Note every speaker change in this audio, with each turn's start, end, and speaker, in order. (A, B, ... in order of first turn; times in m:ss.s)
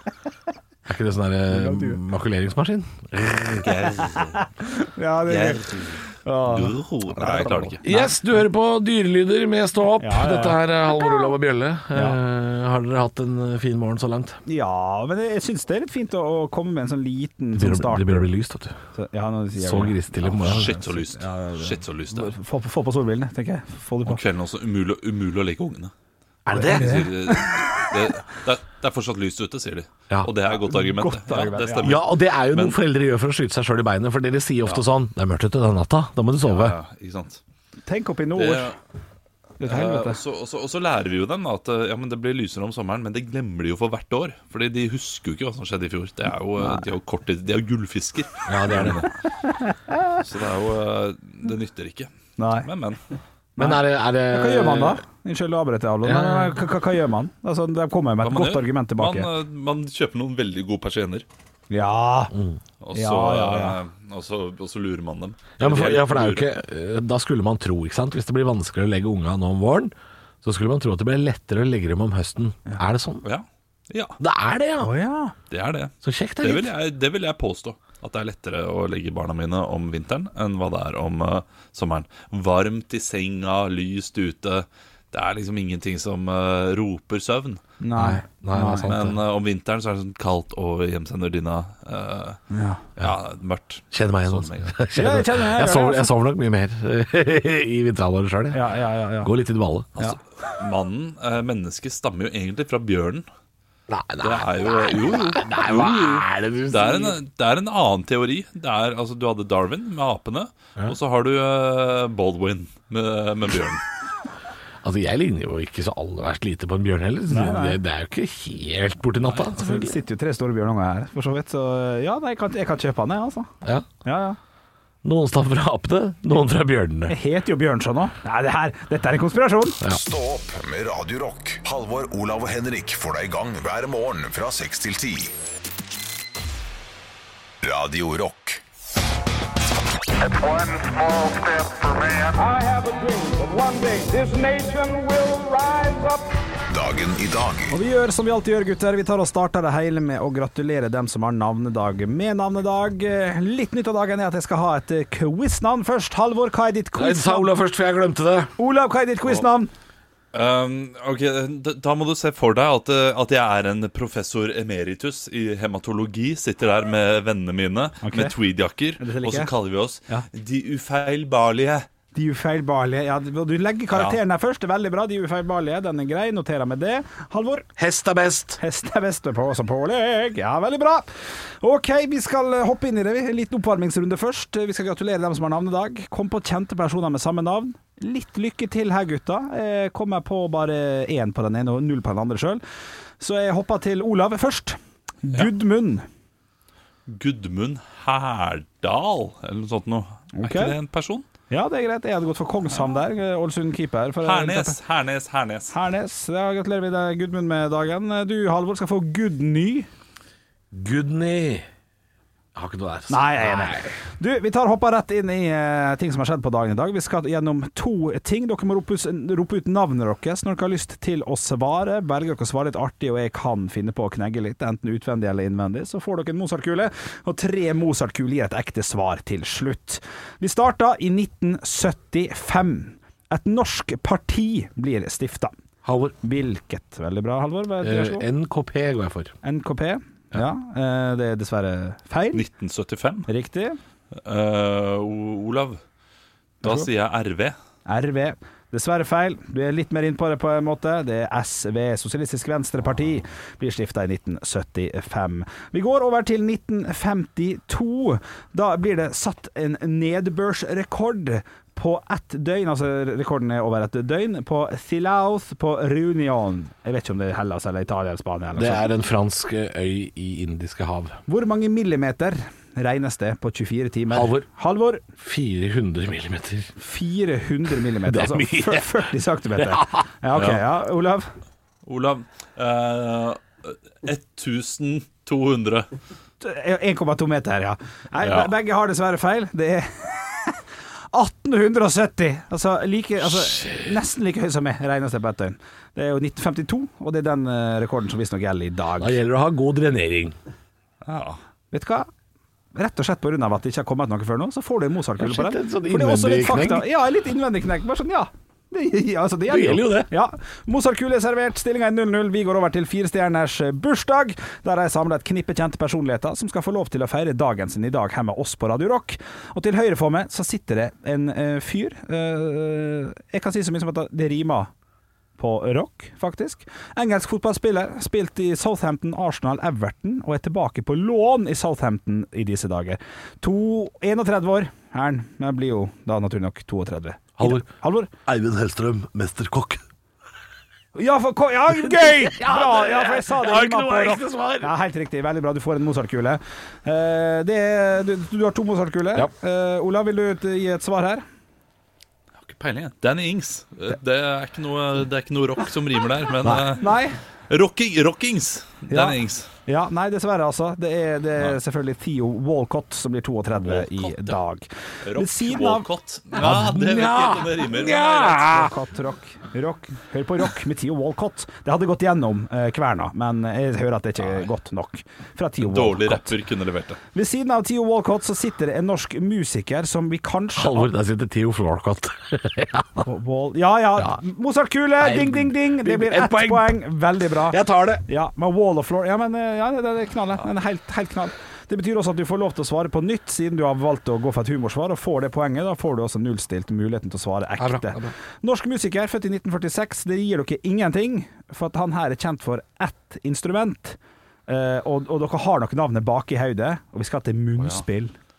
0:00.9-0:03.7 A
0:01.5-0:02.0 B
0:03.6-0:04.4 C
0:04.0-0:08.1 B
0:05.3-0:07.8 C
0:07.8-0:14.4 A
0:10.0-0:11.2 B
0:11.9-0:12.2 B
0:14.5-0:18.3 B
0:17.6-0:18.8 A
0:18.9-0:24.2 B
0:19.6-0:20.8 A
0:20.4-0:22.3 C
0:24.0-0:25.9 C
0:26.5-0:27.1 A
0:26.5-0:27.8 B
0:26.6-0:32.8 C
0:30.4-0:32.0 B
0:31.8-0:36.8 A
0:36.4-0:37.4 C
0:37.9-0:38.7 B
0:38.4-0:38.8 C
0:39.6-0:40.2 B
0:39.6-0:49.0 C
0:48.5-0:49.1 A
0:50.2-0:52.1 C
0:52.4-0:52.7 B
0:52.6-0:53.0 C
0:53.6-0:55.0 A
0:53.6-0:59.3 B
0:56.0-0:56.6 A
0:58.2-1:01.2 C
1:01.7-1:02.3 B
1:02.3-1:02.6 A
1:02.8-1:06.5 C
1:02.9-1:03.8 B
1:05.6-1:13.3 A
1:13.2-1:14.2 C
1:14.2-1:14.9 A
1:14.8-1:15.3 B
1:15.5-1:27.6 C
1:16.0-1:16.8 A
1:27.8-1:28.9 B
1:28.0-1:29.2 A
1:28.9-1:32.4 C
1:32.5-1:32.8 B
1:33.0-1:34.7 C
1:33.9-1:40.2 A
1:35.0-1:36.1 B
1:38.5-1:39.3 B
1:40.6-1:43.2 C
1:43.9-1:47.2 A
1:44.2-1:53.8 C
1:54.8-2:00.0 A
1:57.3-1:57.8 B
1:59.5-2:03.5 B
2:04.0-2:04.4 B
2:05.0-2:07.2 A
2:07.1-2:09.8 B
2:09.8-2:15.3 D
2:17.6-2:18.6 D
2:20.2-2:26.3 E
2:26.7-2:27.7 D
2:27.7-2:37.5 B
2:37.0-2:38.5 A
2:38.6-2:39.7 B
2:40.3-2:51.9 C
2:48.0-2:48.3 B
2:49.0-2:49.5 B
2:52.1-2:57.7 B
2:53.9-2:54.2 C
2:57.8-2:58.6 A
2:58.6-3:01.1 B
3:01.6-3:12.6 B
3:13.2-3:16.1 B
3:17.1-3:21.2 C
3:20.4-3:20.8 B
3:21.5-3:24.8 B
3:24.2-3:25.7 C
3:25.7-3:29.9 B
3:30.7-3:31.7 A
3:32.5-3:33.9 A
3:33.1-3:55.5 B
3:55.8-3:56.2 A
3:56.2-3:58.3 B
3:57.8-3:59.4 A
3:59.4-4:02.4 B
4:02.3-4:03.3 C
4:03.3-4:03.8 B
4:04.2-4:05.8 C
4:06.6-4:06.9 B
4:06.6-4:07.6 C
4:07.8-4:28.9 B
4:28.5-4:31.2 A
4:31.3-4:35.0 B
4:34.1-4:34.5 A
4:35.2-4:36.7 A
4:36.8-4:41.3 B
4:38.0-4:40.6 A
4:41.9-4:45.9 C
4:46.4-4:50.6 B
4:48.2-4:48.5 A
4:51.1-4:59.2 B
4:53.2-4:54.0 A
4:59.0-5:00.4 A
5:01.0-5:01.4 C
5:01.7-5:02.1 B
5:02.8-5:24.7 B
5:05.2-5:06.9 A
5:09.5-5:10.1 A
5:25.4-5:38.1 B
5:37.4-5:37.6 A
5:38.2-5:39.8 A
5:41.0-5:51.2 B
5:41.7-5:44.7 A
5:52.4-5:59.5 C
5:56.4-5:56.7 A
5:56.8-5:57.2 B
5:58.9-6:05.9 B
6:03.6-6:04.4 C
6:05.0-6:08.5 C
6:06.4-6:08.7 A
6:08.4-6:16.3 B
6:15.6-6:17.0 C
6:17.2-6:20.9 B
6:20.6-6:23.1 A
6:23.0-6:48.1 B
6:25.0-6:26.8 A
6:27.4-6:28.0 A
6:37.6-6:38.1 A